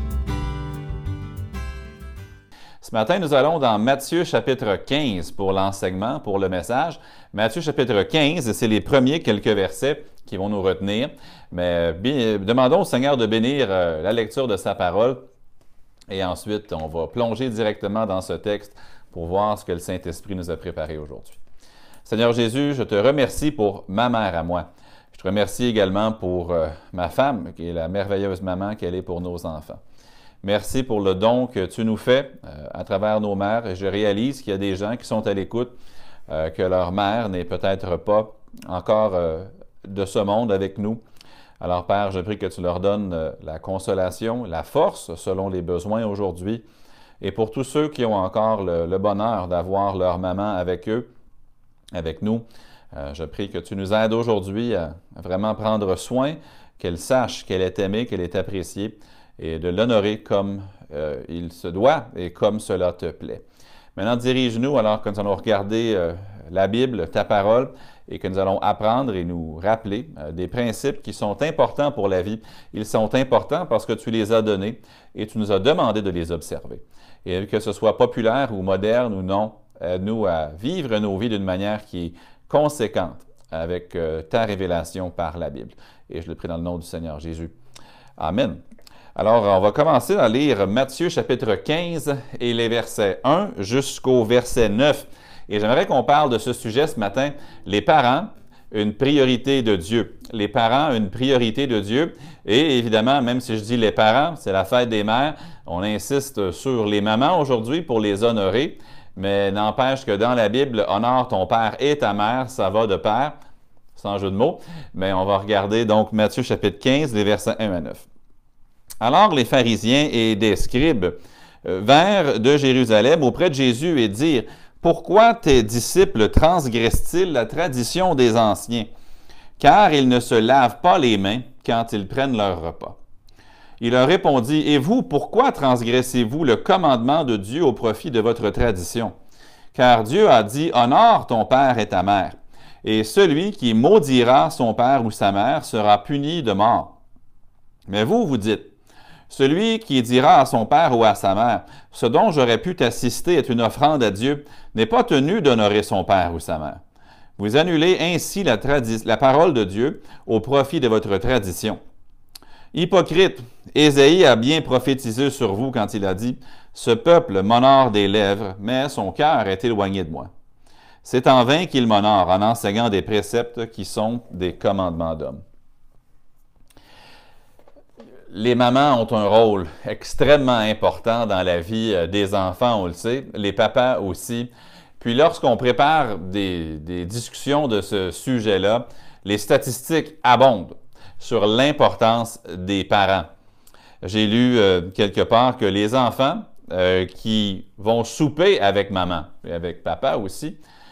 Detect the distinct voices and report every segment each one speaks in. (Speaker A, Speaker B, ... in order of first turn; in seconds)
Speaker A: 2.8-15.2, 16.1-21.4, 22.0-29.8, 30.4-35.7, 36.3-41.0, 41.6-46.6, 47.2-51.1, 51.9-63.4, 64.0-87.5, 88.2-88.6, 89.2-113.4, 114.0-118.1, 119.0-128.9, 129.6-133.0, 133.8-139.1, 139.7-147.0, 147.9-148.7, 149.3-156.8, 157.4-161.8, 162.7-170.3, 171.0-175.4, 178.3-193.3, 194.0-200.6